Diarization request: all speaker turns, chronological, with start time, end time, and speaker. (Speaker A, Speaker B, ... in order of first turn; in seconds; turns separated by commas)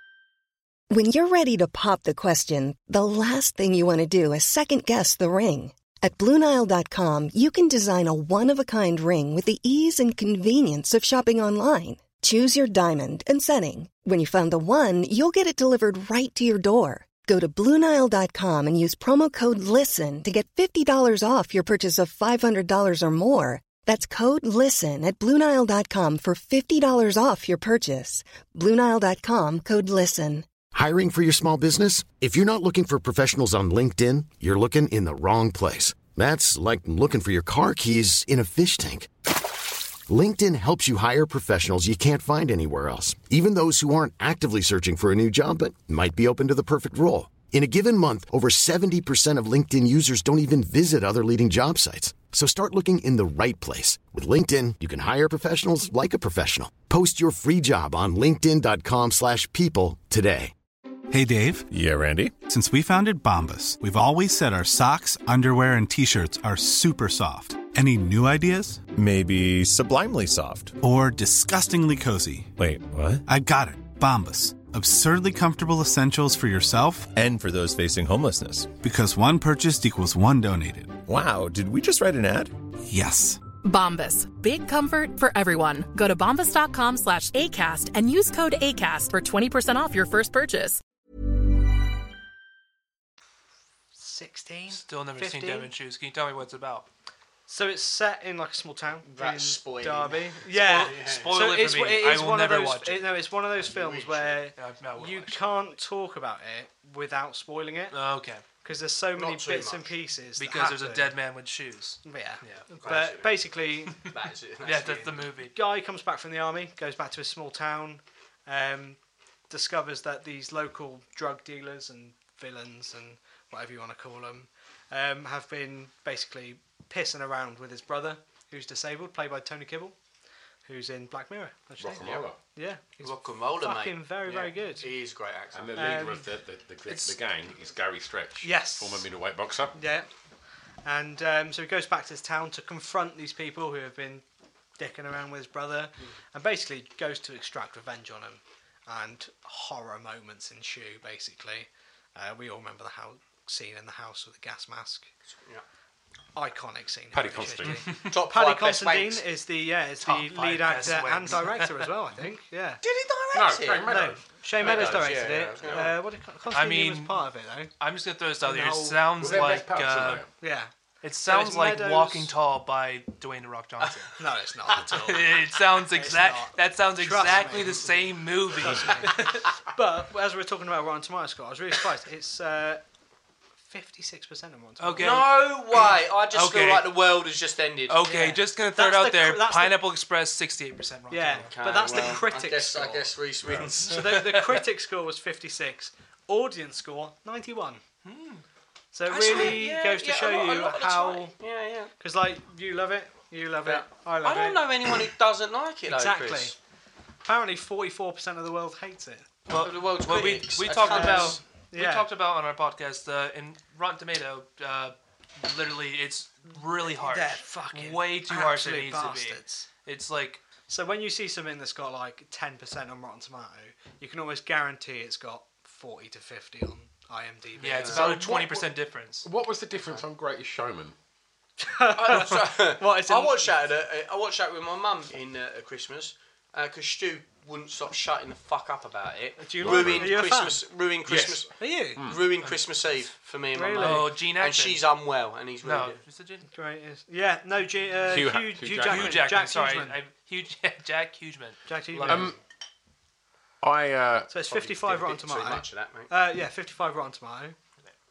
Speaker A: 0.9-30.5, Speaker B: 30.7-39.1, Speaker B: 40.1-60.5, Speaker C: 61.1-61.7, Speaker D: 61.7-62.3, Speaker C: 62.5-68.9, Speaker D: 68.9-70.8, Speaker C: 70.8-72.5, Speaker D: 72.6-73.2, Speaker C: 73.3-77.1, Speaker D: 77.1-78.8, Speaker C: 78.8-81.0, Speaker D: 81.0-82.5, Speaker C: 82.9-83.4, Speaker E: 83.6-90.8, Speaker F: 94.0-95.7, Speaker G: 94.7-96.9, Speaker F: 97.5-108.0, Speaker H: 99.0-101.6, Speaker G: 100.6-103.1, Speaker H: 103.6-104.4, Speaker G: 104.6-105.6, Speaker G: 107.9-108.4, Speaker F: 108.6-111.2, Speaker H: 109.2-109.9, Speaker G: 110.4-112.7, Speaker F: 112.0-114.1, Speaker H: 112.8-115.2, Speaker G: 114.7-115.5, Speaker F: 115.5-119.0, Speaker F: 119.5-129.9, Speaker F: 130.7-134.9, Speaker I: 131.8-132.4, Speaker H: 133.0-135.9, Speaker I: 135.5-139.8, Speaker F: 135.8-136.3, Speaker F: 138.4-139.1, Speaker F: 139.7-140.1, Speaker F: 140.8-144.2, Speaker F: 144.8-155.1, Speaker H: 155.3-155.6, Speaker F: 156.3-162.8, Speaker I: 157.1-157.9, Speaker H: 158.1-159.2, Speaker G: 160.0-161.9, Speaker H: 162.8-164.0, Speaker I: 163.3-165.1, Speaker F: 163.9-167.7, Speaker H: 164.6-165.9, Speaker G: 166.5-167.3, Speaker G: 167.8-170.2, Speaker F: 168.4-169.4, Speaker I: 169.2-170.3, Speaker F: 170.4-170.7, Speaker G: 171.0-174.2, Speaker F: 171.2-172.3, Speaker F: 174.2-178.0, Speaker G: 174.8-179.4, Speaker F: 178.6-182.8, Speaker F: 183.6-185.3, Speaker G: 184.8-185.4, Speaker H: 185.0-188.0, Speaker G: 186.3-186.9, Speaker G: 187.9-191.5, Speaker F: 188.0-189.8, Speaker F: 191.1-193.1, Speaker H: 191.4-194.2, Speaker I: 193.4-193.8, Speaker F: 193.9-197.8, Speaker G: 194.0-194.7, Speaker G: 198.1-198.4, Speaker F: 198.9-201.3, Speaker H: 199.1-201.9, Speaker F: 202.0-205.0, Speaker H: 203.6-206.6, Speaker F: 205.9-206.6, Speaker F: 207.2-209.3, Speaker G: 209.5-220.4, Speaker H: 209.5-211.4, Speaker F: 210.8-212.1, Speaker F: 216.8-219.7, Speaker F: 220.7-228.1, Speaker G: 227.6-229.3, Speaker H: 227.7-228.1, Speaker I: 227.9-228.7, Speaker I: 229.2-231.0, Speaker F: 231.6-233.6, Speaker H: 231.9-246.0, Speaker F: 239.4-240.6, Speaker I: 239.6-240.4, Speaker I: 241.1-242.2, Speaker F: 241.6-242.1, Speaker F: 243.5-244.1, Speaker G: 243.8-244.8, Speaker G: 245.6-246.5, Speaker F: 246.5-250.0, Speaker I: 248.1-249.2, Speaker G: 248.8-252.3, Speaker F: 251.7-252.3, Speaker I: 252.1-252.4, Speaker I: 253.6-254.3, Speaker F: 254.3-257.6, Speaker H: 254.5-256.1